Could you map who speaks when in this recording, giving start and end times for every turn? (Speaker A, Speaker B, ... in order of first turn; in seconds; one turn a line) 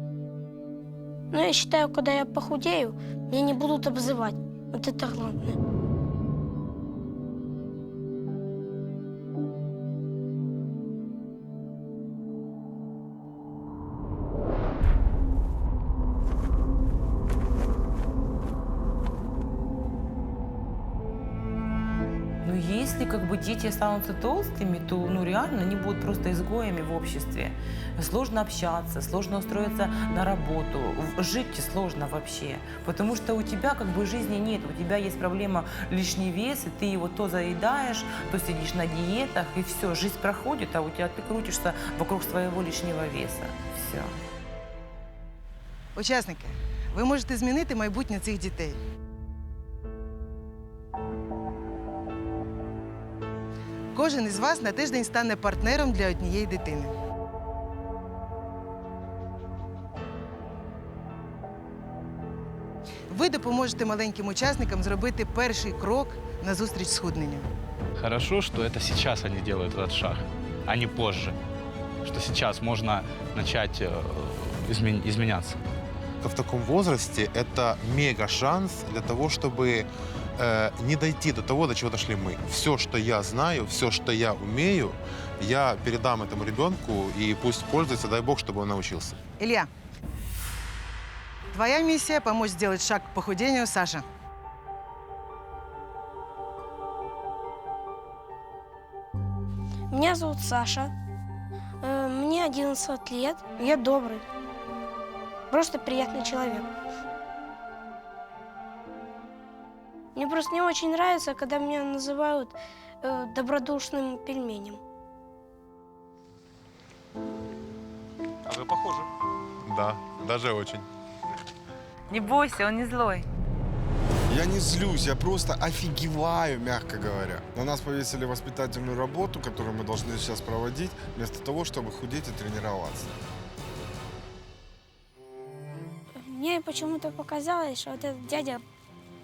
Speaker A: 1.3-5.5
Speaker B: 22.4-44.1
Speaker C: 46.0-48.8
Speaker C: 53.9-56.9
Speaker C: 63.1-67.5
Speaker D: 68.0-71.3
Speaker D: 72.0-75.6
Speaker E: 76.2-89.2
Speaker C: 89.4-89.7
Speaker C: 91.5-94.0
Speaker A: 99.9-100.9
Speaker A: 101.8-104.2
Speaker A: 105.5-106.7
Speaker A: 110.1-114.8
Speaker E: 119.6-120.8
Speaker B: 122.1-123.2
Speaker F: 124.3-133.1
Speaker A: 136.2-138.6